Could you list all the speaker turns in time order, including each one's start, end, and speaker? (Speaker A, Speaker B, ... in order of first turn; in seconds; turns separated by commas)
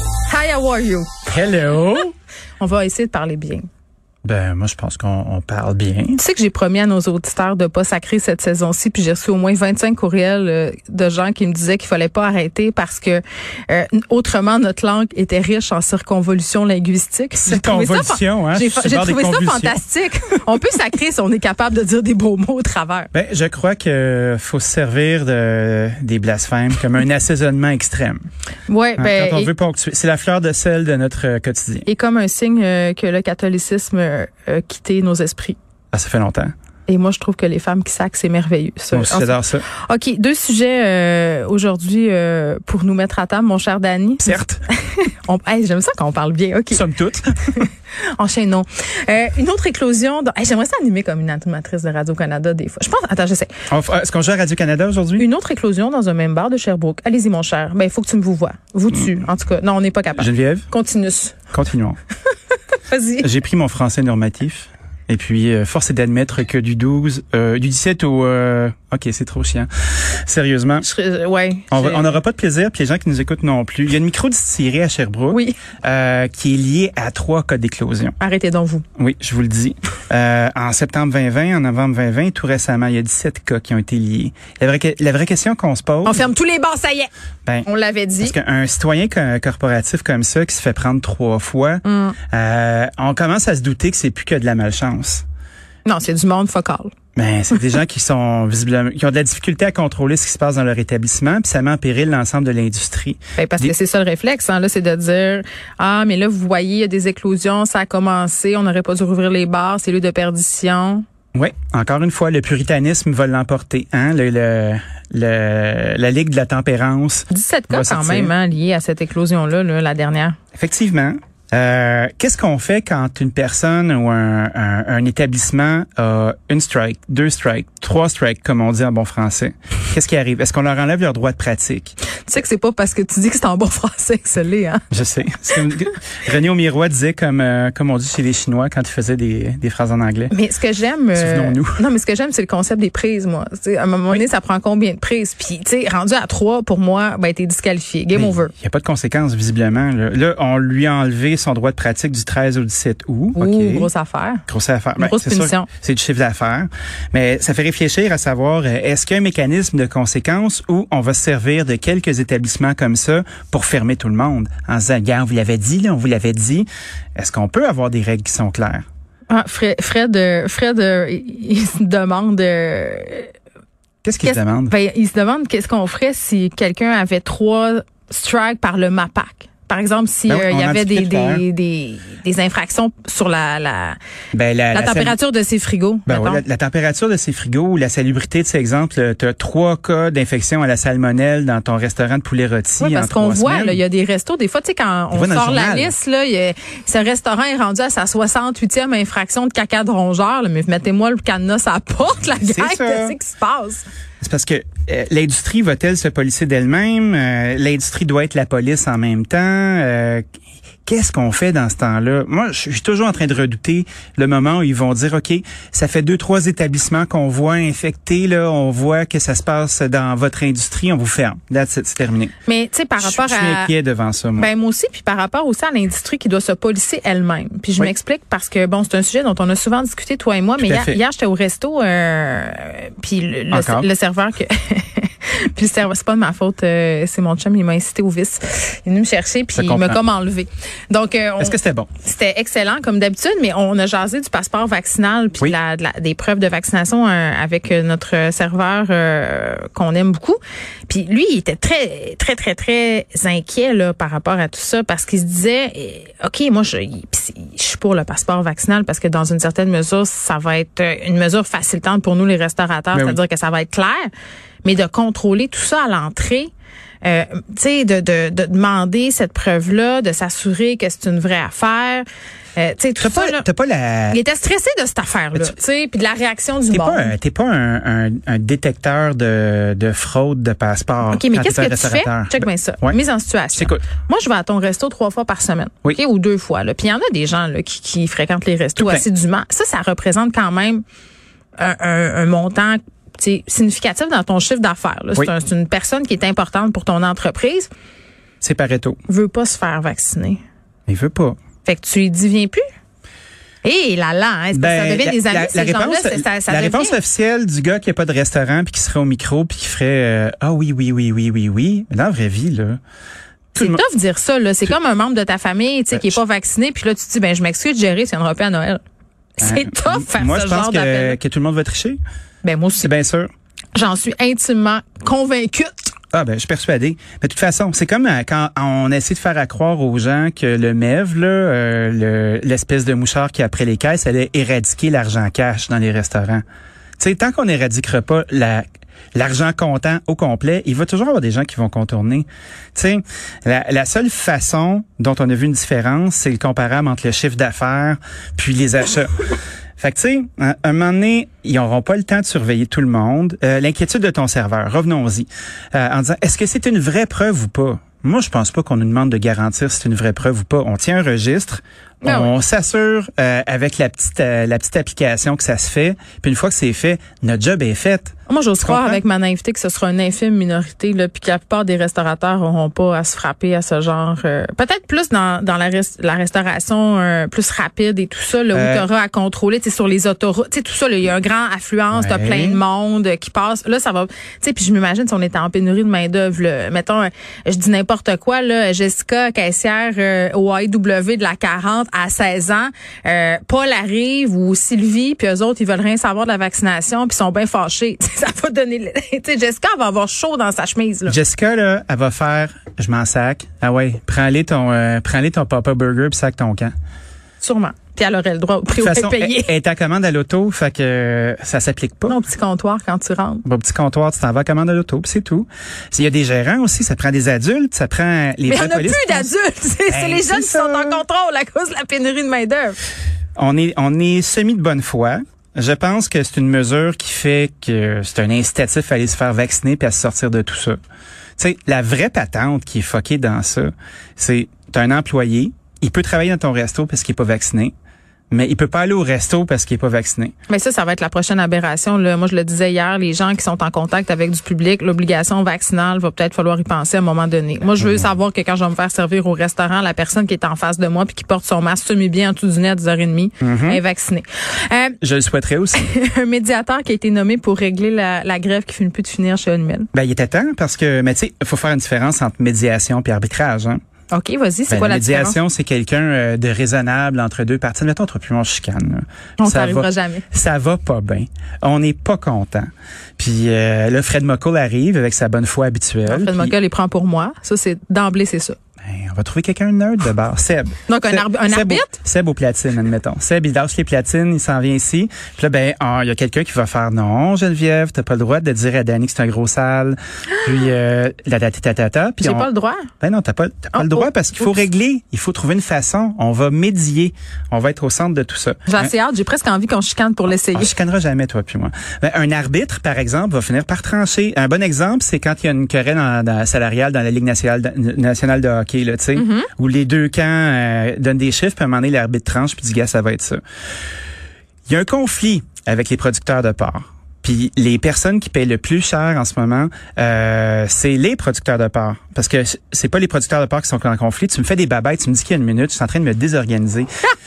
Speaker A: 0.3-1.1, Speaker B: 1.3-2.1, Speaker A: 2.6-3.7, Speaker B: 4.2-6.2, Speaker A: 6.2-23.1, Speaker B: 17.4-19.8, Speaker B: 23.1-28.3, Speaker A: 28.7-29.5, Speaker B: 29.0-31.9, Speaker A: 31.9-35.6, Speaker B: 35.9-36.5, Speaker A: 36.9-46.8, Speaker B: 38.9-39.7, Speaker B: 44.2-44.6, Speaker B: 46.7-47.4, Speaker A: 47.5-53.5, Speaker B: 53.7-55.3, Speaker A: 55.2-61.4, Speaker B: 60.2-60.7, Speaker B: 61.5-62.0, Speaker A: 62.9-63.3, Speaker B: 63.2-70.9, Speaker A: 70.8-72.2, Speaker B: 71.7-78.1, Speaker A: 75.3-75.6, Speaker A: 78.2-78.8, Speaker B: 79.0-86.2, Speaker A: 86.0-87.1, Speaker A: 87.7-88.3, Speaker B: 88.2-95.2, Speaker A: 91.8-92.2, Speaker A: 95.8-96.9, Speaker B: 97.2-103.7, Speaker A: 103.4-111.0, Speaker B: 111.3-118.3, Speaker A: 117.3-120.4, Speaker B: 120.5-131.9, Speaker A: 132.3-134.9, Speaker B: 134.9-140.3, Speaker A: 140.3-148.5, Speaker B: 141.2-141.8, Speaker B: 148.1-153.9, Speaker A: 153.4-154.4, Speaker B: 154.5-168.8, Speaker A: 155.0-155.7, Speaker A: 169.3-173.3, Speaker B: 174.0-174.7, Speaker A: 174.2-184.0, Speaker B: 180.3-181.4, Speaker B: 184.3-185.2, Speaker A: 184.7-186.4, Speaker B: 186.1-193.8, Speaker A: 192.8-203.8, Speaker B: 195.1-195.9, Speaker B: 202.4-203.2, Speaker B: 204.2-210.2, Speaker B: 210.9-222.3, Speaker A: 222.5-223.7, Speaker B: 223.0-224.5, Speaker A: 224.4-264.1, Speaker B: 230.6-231.0, Speaker B: 233.5-233.9, Speaker B: 239.5-240.0, Speaker B: 241.4-241.9, Speaker B: 262.9-263.2, Speaker A: 264.6-266.5, Speaker A: 267.0-273.5, Speaker B: 273.0-274.2, Speaker A: 274.1-277.1, Speaker B: 276.7-283.0, Speaker A: 281.1-290.8, Speaker B: 283.6-283.9, Speaker B: 288.8-289.1, Speaker A: 291.6-297.7, Speaker B: 298.4-299.0, Speaker A: 299.1-300.4, Speaker B: 300.9-301.4, Speaker A: 301.6-302.6, Speaker A: 303.6-307.0, Speaker B: 304.5-312.8, Speaker B: 313.5-313.8, Speaker A: 313.6-318.8, Speaker B: 315.9-316.2, Speaker A: 319.4-321.2, Speaker B: 319.4-322.0, Speaker A: 322.4-322.9, Speaker B: 322.8-323.3, Speaker A: 323.8-325.9, Speaker B: 326.1-336.4, Speaker B: 337.0-338.6, Speaker B: 339.1-349.1, Speaker B: 349.8-369.0, Speaker A: 362.0-362.3, Speaker A: 368.3-401.2, Speaker B: 378.5-378.9, Speaker B: 381.9-382.6, Speaker B: 401.1-406.7, Speaker A: 407.4-409.5, Speaker B: 408.8-412.2, Speaker A: 412.1-413.4, Speaker B: 413.4-419.3, Speaker A: 418.4-422.8, Speaker B: 419.9-421.0, Speaker B: 423.4-430.8, Speaker B: 431.4-437.7, Speaker B: 438.3-440.3, Speaker A: 440.5-455.0, Speaker B: 447.8-448.1, Speaker B: 453.4-453.8, Speaker B: 455.0-455.8, Speaker A: 455.8-459.9, Speaker B: 459.9-463.8, Speaker A: 464.1-465.4, Speaker B: 464.7-476.6, Speaker A: 469.4-470.2, Speaker A: 476.1-478.6, Speaker B: 478.8-492.5, Speaker A: 480.9-481.9, Speaker A: 492.2-492.9, Speaker B: 493.0-498.9, Speaker A: 493.7-494.1, Speaker A: 498.7-500.7, Speaker B: 500.5-513.4, Speaker A: 509.1-509.5, Speaker B: 514.7-526.9